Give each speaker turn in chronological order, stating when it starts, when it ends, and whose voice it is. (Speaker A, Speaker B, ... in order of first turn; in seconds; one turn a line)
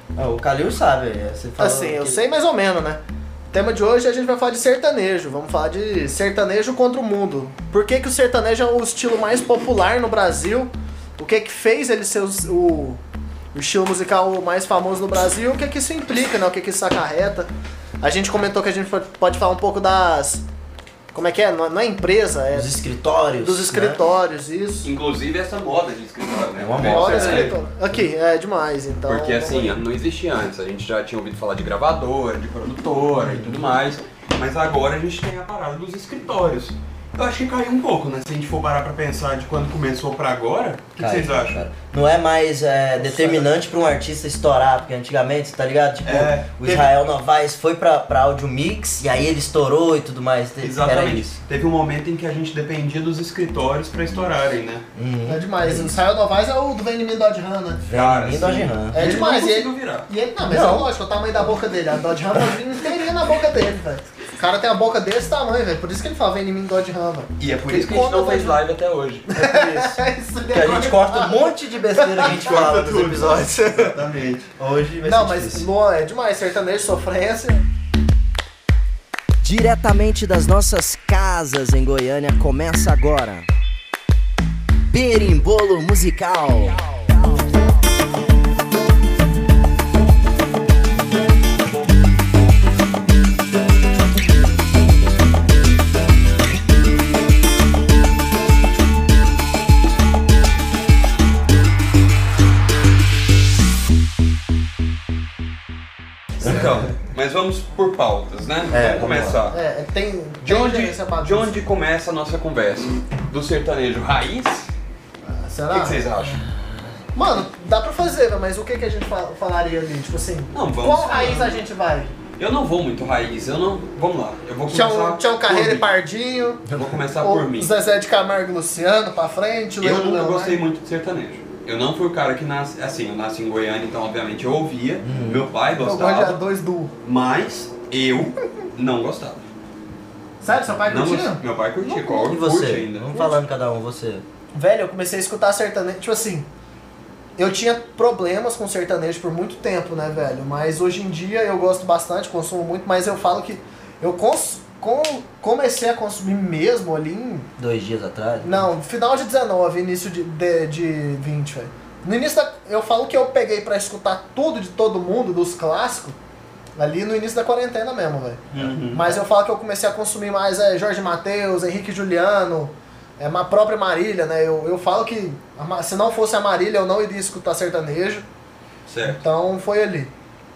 Speaker A: 0.1-2.2
Speaker B: 1.6-3.0
Speaker B: 3.5-13.0
Speaker B: 13.5-17.5
Speaker B: 18.0-20.4
Speaker B: 21.1-22.8
Speaker A: 22.5-24.0
Speaker B: 23.4-24.9
Speaker C: 24.8-27.6
Speaker A: 26.6-28.0
Speaker B: 26.8-29.8
Speaker C: 29.1-41.6
Speaker A: 33.2-33.6
Speaker A: 41.0-51.4
Speaker C: 43.1-43.4
Speaker C: 46.0-47.0
Speaker C: 50.6-54.8
Speaker A: 54.9-55.9
Speaker B: 55.3-57.8
Speaker A: 57.9-59.0
Speaker C: 57.9-60.1
Speaker B: 58.9-68.6
Speaker A: 60.4-60.9
Speaker C: 67.4-70.0
Speaker B: 69.3-72.5
Speaker A: 70.5-74.0
Speaker C: 72.2-74.5
Speaker A: 74.6-75.7
Speaker B: 75.0-77.6
Speaker A: 79.4-83.5
Speaker A: 84.9-86.8
Speaker C: 106.4-109.6
Speaker A: 108.7-109.5
Speaker B: 109.5-111.6
Speaker C: 110.4-114.7
Speaker B: 115.2-116.0
Speaker C: 115.7-116.4
Speaker B: 117.1-122.1
Speaker C: 120.5-121.6
Speaker C: 122.4-125.9
Speaker B: 124.7-126.6
Speaker A: 126.7-127.0
Speaker C: 126.7-127.7
Speaker B: 127.2-130.6
Speaker C: 129.8-136.4
Speaker A: 135.0-135.5
Speaker B: 135.8-136.9
Speaker C: 137.0-139.4
Speaker B: 140.4-141.4
Speaker C: 140.8-143.4
Speaker A: 142.0-144.2
Speaker B: 144.5-146.5
Speaker B: 147.4-157.5
Speaker A: 157.6-158.6
Speaker B: 158.4-166.2
Speaker B: 166.8-178.2
Speaker C: 168.5-169.2
Speaker C: 178.9-179.2
Speaker B: 179.0-180.1